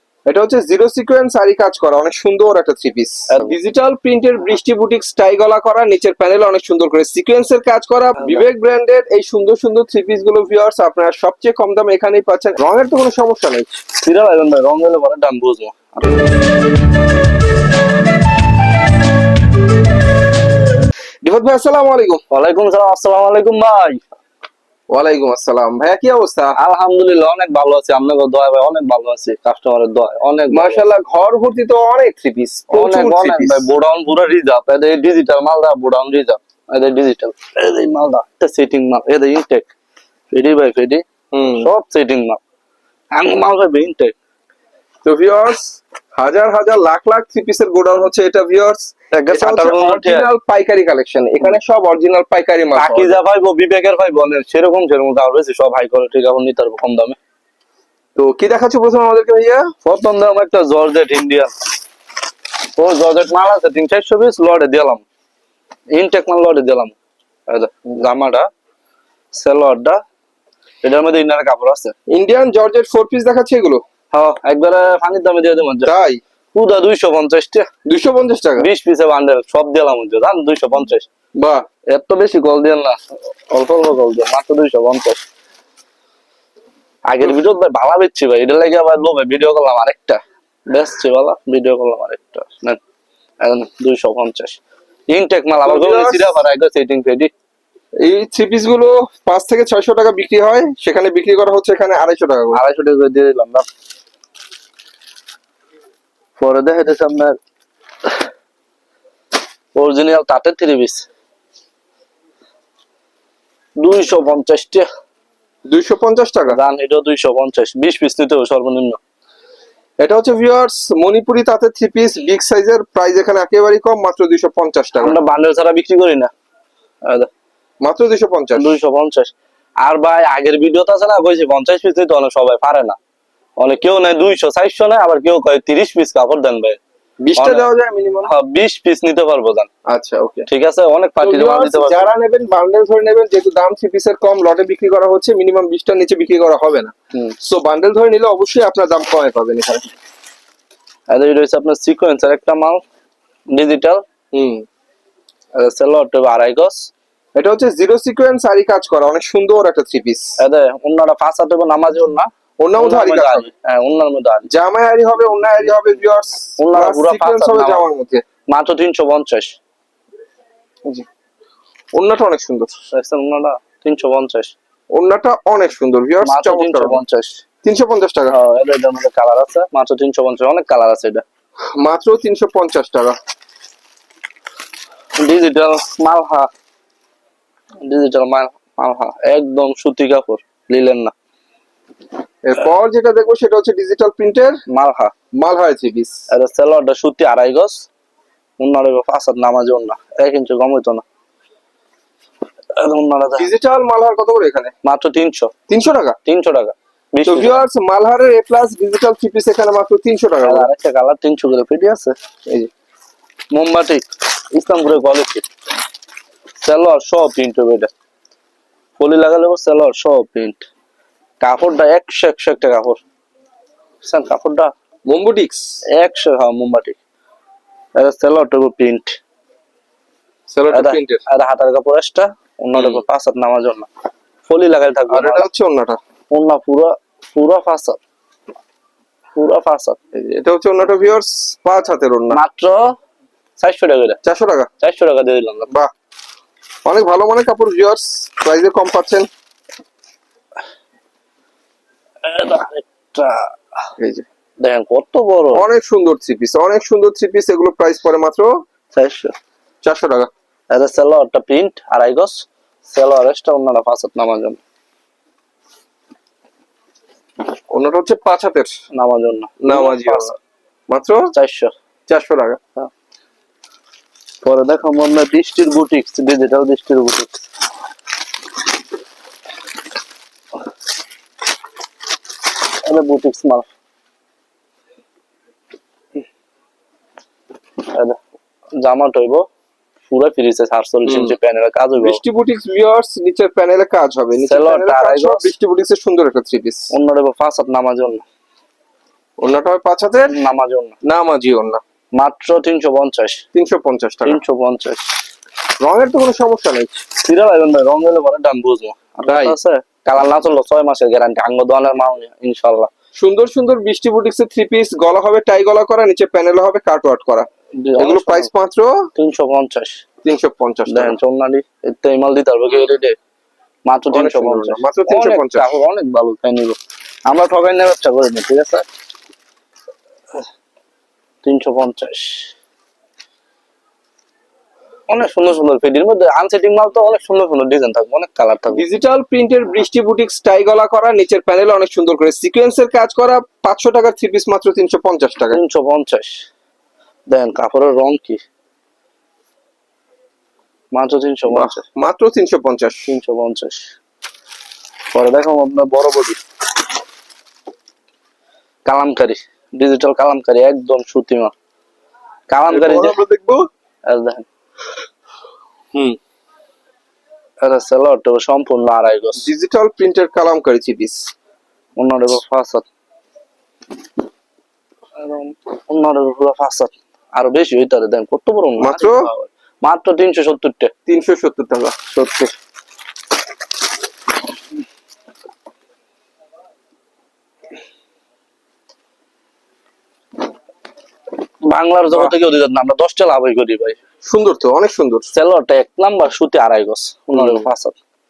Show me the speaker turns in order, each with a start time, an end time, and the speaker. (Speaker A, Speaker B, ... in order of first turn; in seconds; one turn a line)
Speaker A: 0.3-13.8
Speaker B: 3.3-3.5
Speaker B: 14.0-16.3
Speaker A: 21.2-22.2
Speaker B: 22.3-24.0
Speaker A: 24.9-26.6
Speaker B: 26.6-30.8
Speaker A: 30.5-33.7
Speaker B: 32.7-39.7
Speaker B: 40.3-41.0
Speaker A: 41.3-41.7
Speaker B: 41.5-42.4
Speaker B: 43.1-44.1
Speaker A: 45.0-53.2
Speaker B: 49.1-50.3
Speaker B: 52.8-57.2
Speaker A: 58.1-59.6
Speaker B: 59.8-61.5
Speaker B: 62.8-65.0
Speaker B: 65.9-67.0
Speaker B: 67.5-68.5
Speaker B: 69.3-70.0
Speaker B: 70.8-71.9
Speaker A: 72.1-73.8
Speaker B: 74.1-75.9
Speaker A: 75.8-76.2
Speaker B: 76.5-77.7
Speaker A: 77.8-78.7
Speaker B: 78.6-81.0
Speaker A: 81.4-81.6
Speaker B: 81.9-85.2
Speaker B: 87.1-92.8
Speaker B: 93.4-97.3
Speaker A: 95.6-96.4
Speaker A: 98.0-102.6
Speaker B: 102.5-103.7
Speaker B: 106.4-107.3
Speaker B: 109.7-111.0
Speaker B: 113.8-114.9
Speaker A: 115.7-116.6
Speaker B: 116.5-119.0
Speaker A: 120.0-125.2
Speaker B: 125.0-126.3
Speaker B: 127.0-127.3
Speaker A: 127.8-128.8
Speaker B: 128.6-133.0
Speaker B: 133.6-136.8
Speaker A: 137.2-138.3
Speaker B: 137.3-137.7
Speaker B: 138.2-139.7
Speaker A: 139.9-140.5
Speaker B: 140.5-142.1
Speaker A: 141.2-149.9
Speaker B: 151.1-152.8
Speaker B: 153.5-154.0
Speaker A: 154.3-154.6
Speaker B: 155.5-156.9
Speaker A: 157.3-160.4
Speaker B: 160.4-164.5
Speaker A: 162.6-163.5
Speaker A: 164.5-168.2
Speaker B: 166.6-167.8
Speaker B: 168.5-169.6
Speaker A: 171.9-172.7
Speaker B: 172.9-174.5
Speaker A: 174.9-177.0
Speaker B: 176.2-177.4
Speaker A: 177.6-178.3
Speaker B: 178.3-181.2
Speaker A: 181.8-183.2
Speaker B: 185.2-186.5
Speaker B: 187.8-191.1
Speaker A: 192.4-194.6
Speaker B: 194.7-195.1
Speaker A: 195.3-196.2
Speaker B: 196.3-197.8
Speaker B: 198.6-201.0
Speaker B: 202.7-203.5
Speaker A: 203.4-204.7
Speaker B: 204.8-205.5
Speaker A: 205.7-206.2
Speaker B: 206.2-207.6
Speaker A: 207.2-210.7
Speaker B: 210.4-212.1
Speaker B: 213.5-215.5
Speaker B: 216.6-217.9
Speaker B: 219.0-220.6
Speaker B: 221.4-223.0
Speaker B: 224.0-224.7
Speaker A: 225.1-225.6
Speaker B: 226.0-227.0
Speaker B: 227.9-229.2
Speaker A: 230.5-231.2
Speaker B: 230.7-233.9
Speaker A: 232.7-233.0
Speaker B: 234.4-235.4
Speaker A: 235.1-236.0
Speaker B: 236.3-238.0
Speaker B: 239.3-240.0
Speaker A: 240.1-242.4
Speaker B: 242.3-242.9
Speaker B: 243.6-244.2
Speaker A: 244.2-244.7
Speaker B: 244.8-245.7
Speaker A: 246.8-249.3
Speaker B: 252.2-253.5
Speaker A: 254.0-254.2
Speaker B: 254.6-255.6
Speaker A: 255.5-258.5
Speaker B: 258.9-259.3
Speaker A: 259.8-260.3
Speaker B: 260.7-264.6
Speaker A: 267.7-268.7
Speaker B: 268.9-270.4
Speaker A: 269.6-270.3
Speaker A: 270.9-271.3
Speaker B: 271.3-271.7
Speaker A: 272.1-272.6
Speaker B: 274.4-277.4
Speaker B: 282.8-283.7
Speaker B: 287.8-288.2
Speaker B: 288.8-289.4
Speaker B: 290.1-292.2
Speaker A: 291.1-291.4
Speaker A: 292.0-296.9
Speaker B: 294.4-295.5
Speaker B: 296.9-298.2
Speaker A: 299.4-300.4
Speaker B: 300.3-301.0
Speaker A: 301.0-301.8
Speaker B: 302.1-303.4
Speaker A: 303.5-304.4
Speaker B: 304.2-305.0
Speaker A: 305.8-307.0
Speaker B: 307.2-312.9
Speaker A: 309.2-309.6
Speaker A: 313.2-317.5
Speaker B: 317.8-318.5
Speaker A: 318.0-319.1
Speaker B: 319.1-320.0
Speaker A: 320.2-321.2
Speaker B: 320.9-323.2
Speaker B: 323.9-328.9
Speaker A: 324.1-325.7
Speaker B: 331.4-332.5
Speaker B: 335.1-338.8
Speaker A: 338.7-345.6
Speaker B: 345.5-346.4
Speaker B: 347.3-348.4
Speaker B: 350.9-351.8
Speaker A: 351.5-353.2
Speaker B: 353.1-353.9
Speaker B: 355.1-356.4
Speaker B: 358.9-361.5
Speaker B: 362.5-363.2
Speaker A: 362.7-363.6
Speaker B: 364.1-364.4
Speaker B: 367.6-369.5
Speaker A: 369.4-371.3
Speaker B: 372.0-372.8
Speaker B: 375.2-380.9
Speaker A: 378.8-379.3
Speaker A: 381.1-382.5
Speaker B: 391.6-394.0
Speaker A: 394.3-395.3
Speaker B: 395.3-398.0
Speaker A: 397.3-397.6